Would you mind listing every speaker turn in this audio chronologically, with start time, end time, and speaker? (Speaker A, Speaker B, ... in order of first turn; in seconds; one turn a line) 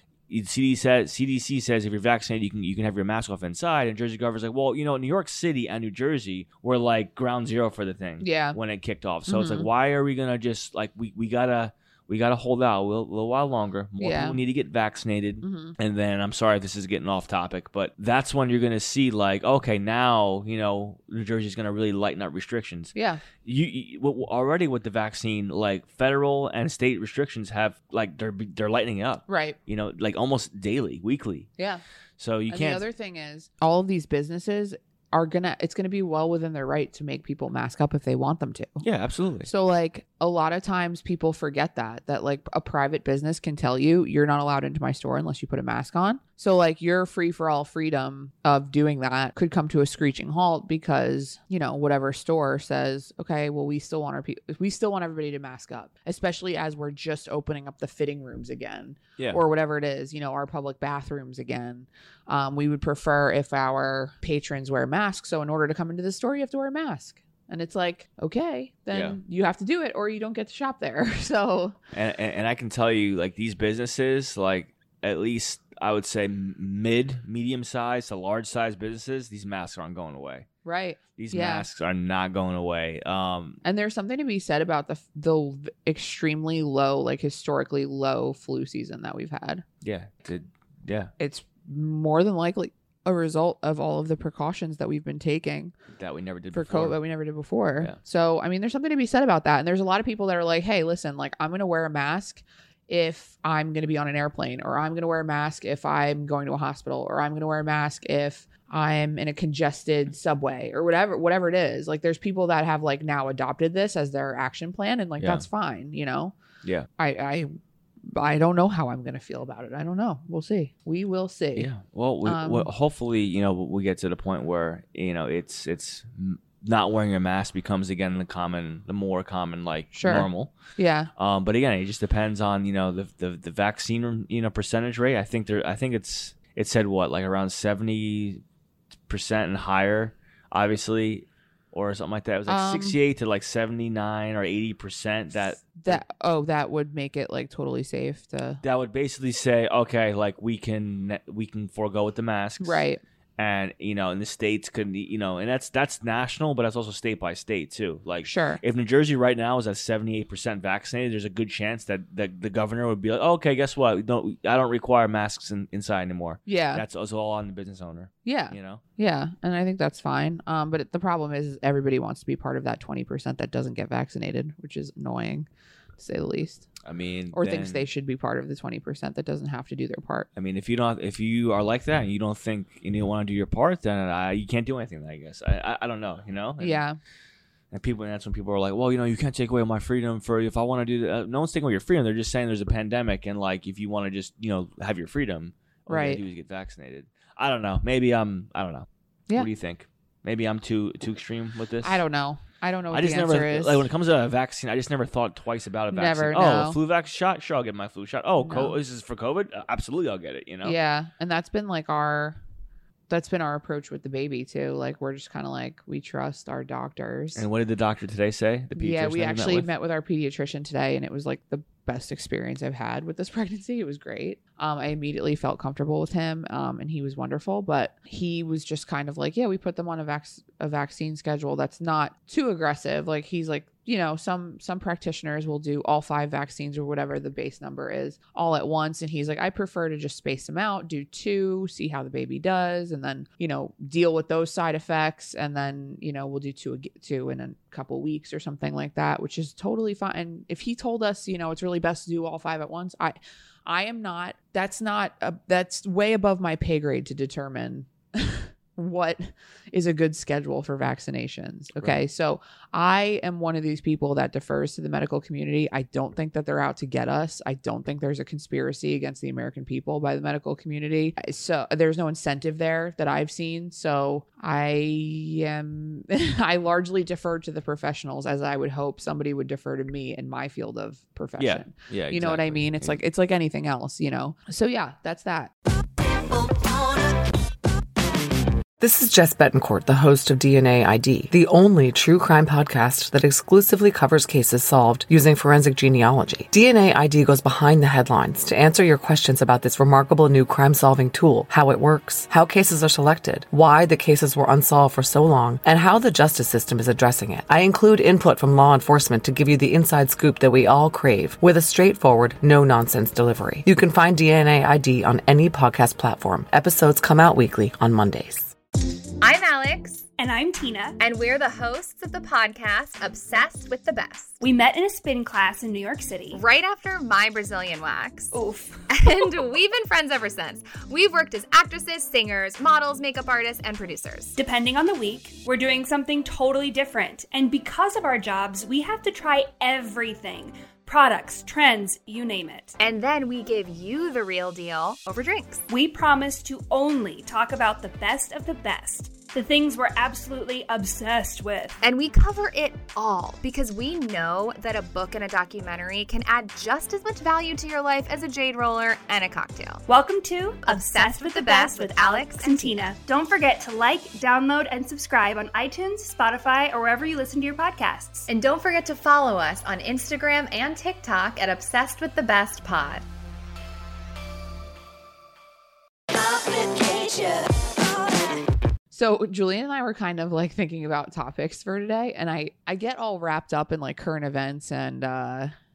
Speaker A: 0.3-31.5
Speaker B: 8.2-8.6
Speaker B: 9.3-9.7
Speaker B: 14.0-14.4
Speaker B: 15.4-15.7
Speaker B: 22.9-23.2
Speaker B: 29.3-29.6
Speaker A: 32.2-32.8
Speaker B: 32.5-38.8
Speaker A: 38.8-39.5
Speaker B: 39.5-71.8
Speaker A: 71.9-80.5
Speaker B: 80.6-81.7
Speaker A: 81.2-83.6
Speaker B: 83.6-89.6
Speaker A: 89.8-91.1
Speaker B: 91.2-95.7
Speaker A: 96.0-97.0
Speaker B: 96.5-116.3
Speaker A: 115.2-115.4
Speaker B: 117.0-117.5
Speaker B: 118.1-121.7
Speaker A: 121.5-130.5
Speaker B: 122.2-122.7
Speaker B: 129.9-131.1
Speaker A: 131.2-138.4
Speaker A: 139.1-146.0
Speaker B: 142.5-143.0
Speaker B: 145.6-148.6
Speaker A: 148.6-152.8
Speaker B: 152.6-153.0
Speaker A: 153.4-168.8
Speaker B: 158.2-158.6
Speaker B: 166.5-166.8
Speaker B: 168.2-176.7
Speaker A: 176.8-177.9
Speaker B: 177.3-180.3
Speaker A: 180.3-186.8
Speaker B: 186.6-187.0
Speaker A: 187.7-202.0
Speaker B: 195.9-196.2
Speaker B: 201.8-203.9
Speaker A: 202.9-210.8
Speaker B: 205.9-206.8
Speaker B: 208.4-208.8
Speaker B: 210.6-212.4
Speaker B: 213.1-217.4
Speaker A: 217.3-219.7
Speaker B: 218.8-285.5
Speaker A: 281.4-283.0
Speaker C: 288.8-318.5
Speaker D: 319.2-320.1
Speaker E: 320.2-321.0
Speaker D: 321.0-324.4
Speaker E: 324.4-326.4
Speaker D: 326.3-328.3
Speaker E: 328.3-329.1
Speaker D: 328.9-334.4
Speaker E: 334.4-342.8
Speaker D: 342.8-345.6
Speaker E: 345.7-351.8
Speaker D: 351.8-359.8
Speaker E: 359.9-368.3
Speaker D: 360.6-362.9
Speaker D: 368.3-373.0
Speaker E: 376.4-377.3
Speaker B: 378.9-385.5